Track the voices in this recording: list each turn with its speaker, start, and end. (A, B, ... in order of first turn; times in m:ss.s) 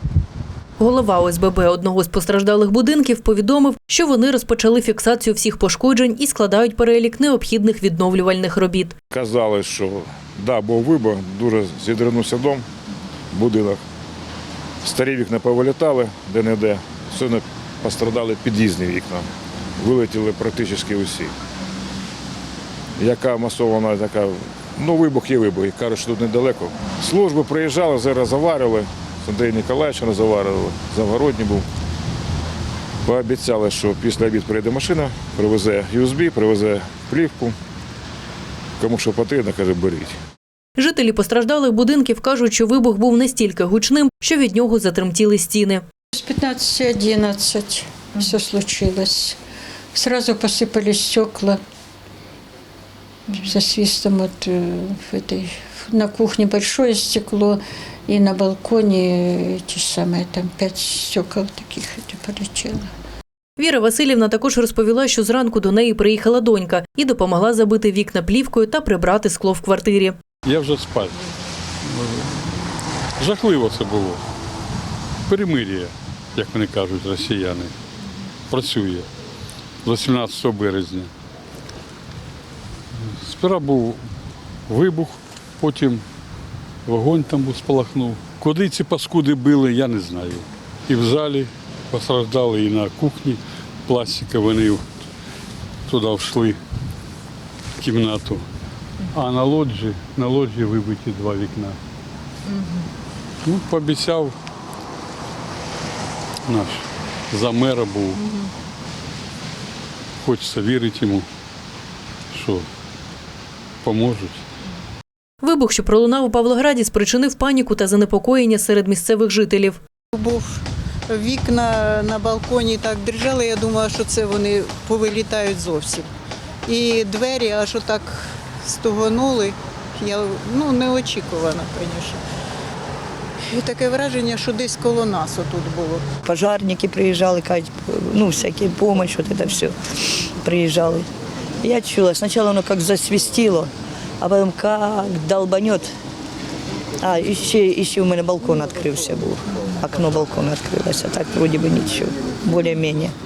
0:00.8-0:08.9 A
0:09.1-0:12.6 B
0:13.3-0:13.8 B
0:14.8-0:19.3 B
0:19.8-0:21.3 B
0:23.0-0:31.6 B
0:33.0-0:37.5 B
0:38.8-0:40.2 B
0:40.8-0:45.8 A
0:46.2-0:49.4 C
0:49.9-0:51.6 C
0:53.4-1:02.9 C
1:03.6-1:10.2 A
1:10.4-1:11.1 D
1:13.2-1:14.2 D
1:15.3-1:17.7 D
1:18.5-1:19.1 D
1:19.8-1:21.1 D
1:23.2-1:24.0 D
1:24.7-1:26.0 D
1:26.8-1:34.8 D
1:35.9-1:36.6 D
1:37.8-1:38.4 D
1:39.1-1:41.8 D
1:43.4-1:44.3 D
1:46.5-1:46.8 D
1:47.3-1:48.2 D
1:50.2-1:51.2 D
1:52.3-1:52.6 D
1:53.8-1:54.4 D
1:55.4-1:59.8 A
2:00.1-2:06.1 E
2:06.6-2:12.2 E
2:13.4-2:16.2 E
2:16.3-2:19.6 F
2:20.4-2:21.0 F
2:21.6-2:23.7 F
2:24.2-2:25.9 F
2:27.0-2:33.1 F